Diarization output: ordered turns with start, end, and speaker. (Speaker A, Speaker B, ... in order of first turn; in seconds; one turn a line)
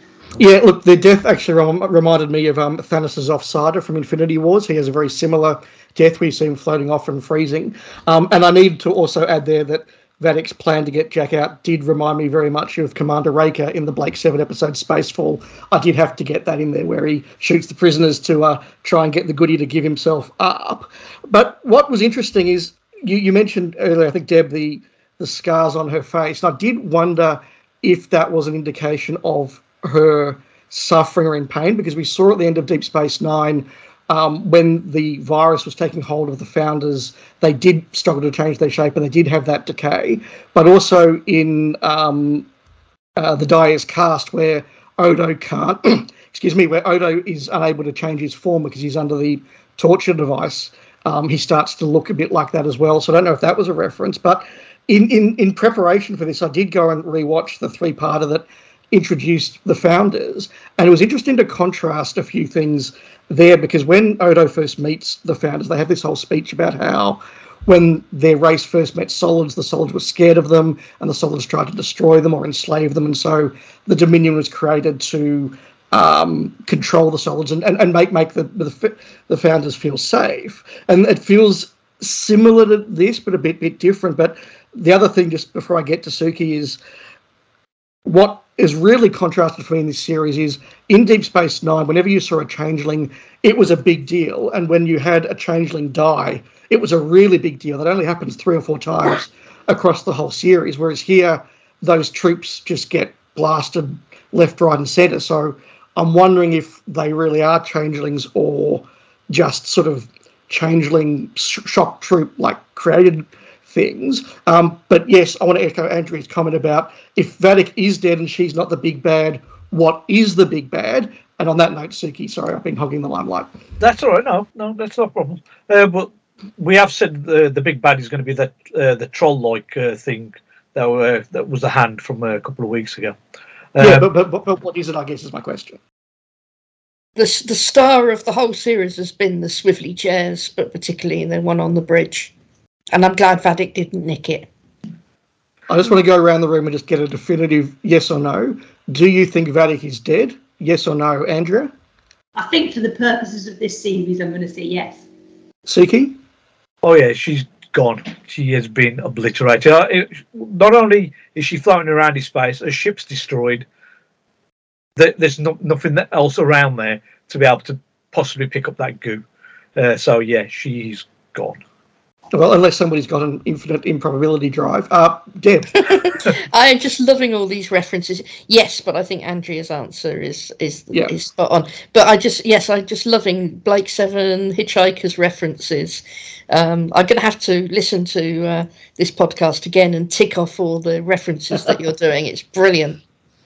Speaker A: 0.4-42.5
Speaker A: 43.1-86.8
Speaker A: 88.0-123.5
Speaker B: 123.8-133.2
Speaker B: 133.7-134.1
Speaker A: 133.8-135.8
Speaker C: 137.2-142.3
Speaker C: 142.9-144.5
Speaker A: 145.7-151.7
Speaker D: 152.3-155.0
Speaker A: 155.7-156.2
Speaker B: 156.8-163.6
Speaker B: 165.0-169.2
Speaker B: 169.8-171.6
Speaker A: 172.3-176.2
Speaker C: 175.9-193.0